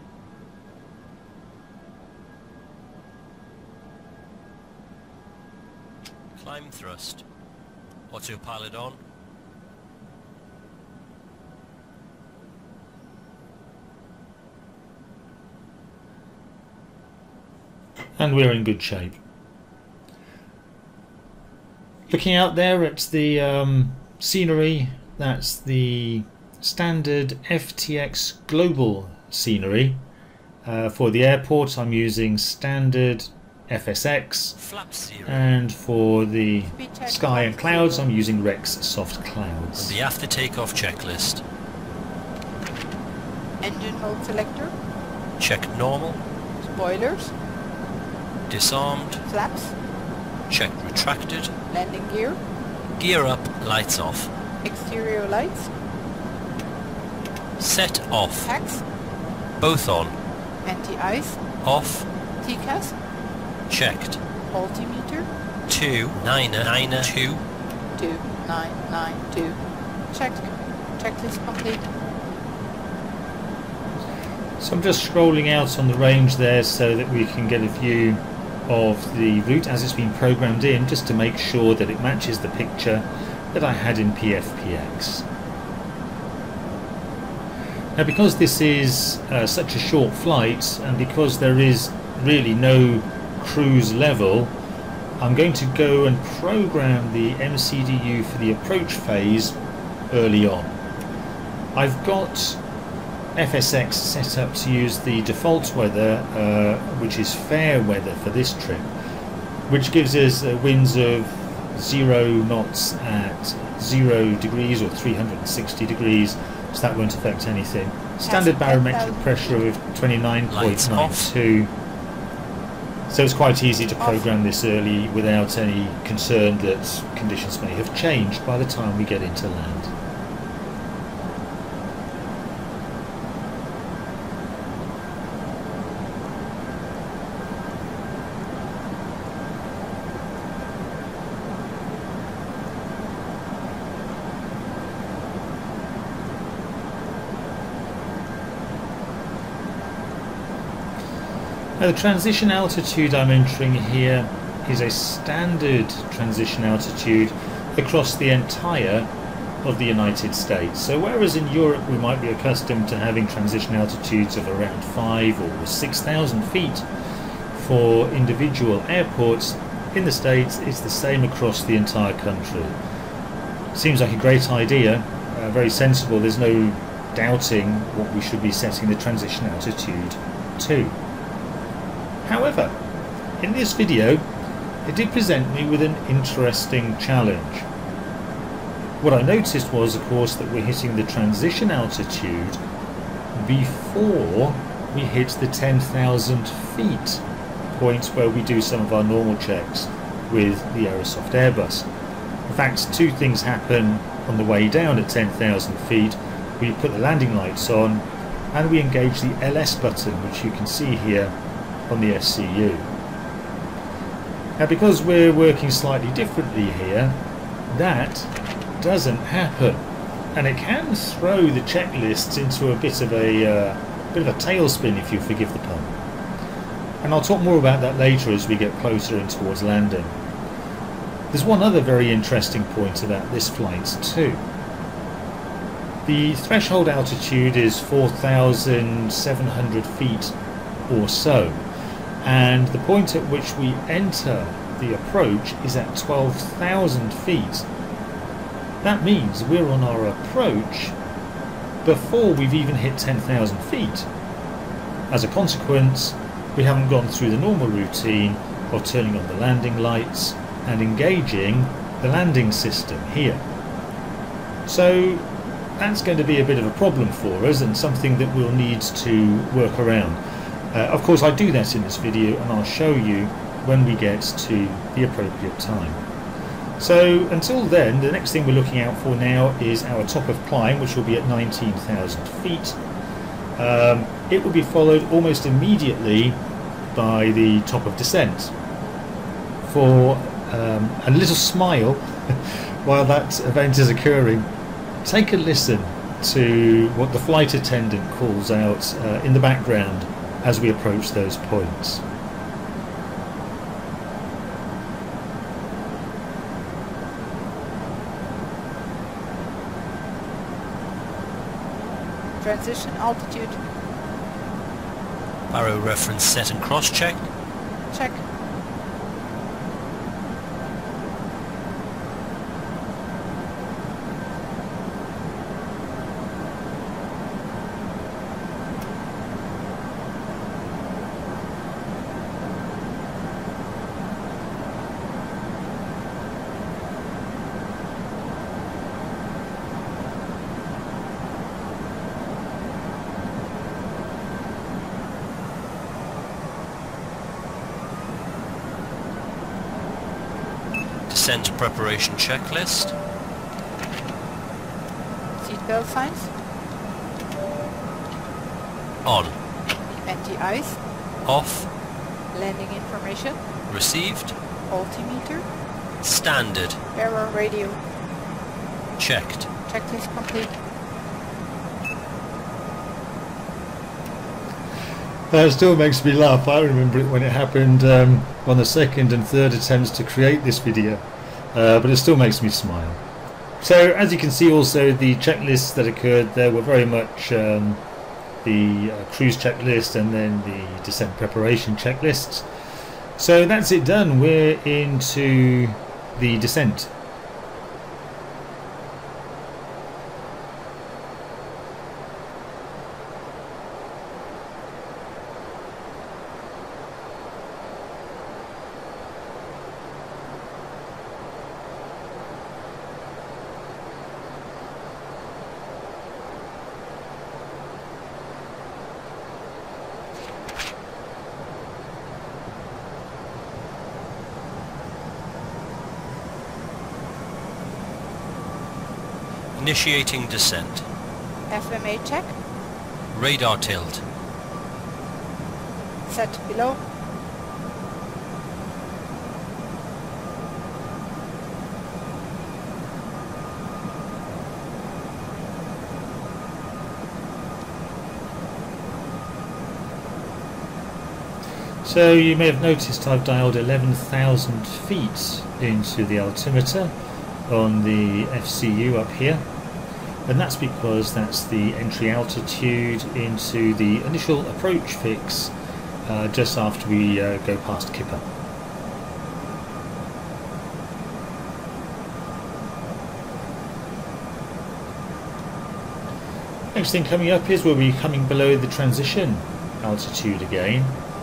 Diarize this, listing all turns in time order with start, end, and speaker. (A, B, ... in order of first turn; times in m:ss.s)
0:06.4-0:07.2 A
0:08.1-0:09.0 A
0:18.2-0:19.2 B
0:22.1-0:30.0 B
0:30.6-0:34.6 B
0:34.6-0:35.5 A
0:35.2-0:40.0 B
0:36.6-0:38.1 C
0:39.8-0:41.4 A
0:43.6-0:44.7 C
0:45.4-0:46.2 A
0:46.6-0:47.3 C
0:48.5-0:49.2 A
0:49.2-0:49.8 C
0:50.5-0:51.5 A
0:51.7-0:52.4 C
0:53.0-0:54.3 A
0:54.6-0:55.7 C
0:57.6-0:58.5 A
0:58.4-0:58.8 C
0:59.6-1:00.2 A
1:00.6-1:01.4 C
1:01.6-1:02.1 A
1:02.4-1:03.0 C
1:03.7-1:04.2 A
1:04.5-1:05.3 C
1:05.7-1:07.4 A
1:08.0-1:09.6 C
1:10.1-1:11.9 C
1:14.6-1:25.2 B
1:28.0-1:34.6 B
1:35.2-1:39.6 B
1:40.1-1:40.8 B
1:41.8-1:42.6 B
1:43.4-1:48.9 B
1:49.7-2:01.7 B
1:58.2-1:59.7 C
2:00.5-2:01.3 A
2:03.1-2:09.9 B
2:04.0-2:04.3 C
2:31.8-2:39.1 B
2:39.6-2:46.9 B
2:47.5-2:52.8 B
2:53.7-3:01.0 B
3:02.2-3:02.8 B
3:03.4-3:04.3 B
3:04.8-3:07.7 B
3:09.0-3:12.6 B
3:13.3-3:21.9 B
3:22.5-3:31.4 B
3:31.9-3:32.9 B
3:34.6-3:46.0 B
3:47.0-3:50.2 B
3:51.3-3:54.4 B
3:56.0-4:00.4 B
4:00.9-4:01.7 B
4:02.2-4:07.7 B
4:08.8-4:11.0 B
4:11.8-4:14.1 B
4:15.1-4:23.5 B
4:24.7-4:30.2 B
4:30.7-4:36.0 B
4:36.8-4:42.8 B
4:43.6-4:46.4 B
4:46.9-4:48.5 B
4:49.6-4:54.5 B
4:55.0-5:02.0 B
5:12.4-5:13.6 C
5:15.5-5:17.3 A
5:17.9-5:18.2 C
5:51.1-5:52.9 A
5:55.4-5:56.3 C
5:59.0-5:59.4 A
5:59.9-6:00.8 C
6:01.2-6:01.7 A
6:02.3-6:03.4 C
6:03.7-6:04.4 A
6:04.7-6:05.5 C
6:06.0-6:06.8 A
6:07.0-6:07.8 C
6:09.0-6:09.5 A
6:09.7-6:10.6 C
6:15.3-6:23.0 B
6:23.6-6:27.8 B
6:28.4-6:32.5 B
6:33.2-6:36.9 B
7:09.6-7:10.9 A
7:11.5-7:12.4 C
7:13.1-7:14.0 A
7:16.1-7:16.8 C
7:31.8-7:36.9 B
7:37.5-7:39.5 B
7:40.2-7:45.5 B
7:46.1-7:48.3 B
7:56.7-8:01.0 B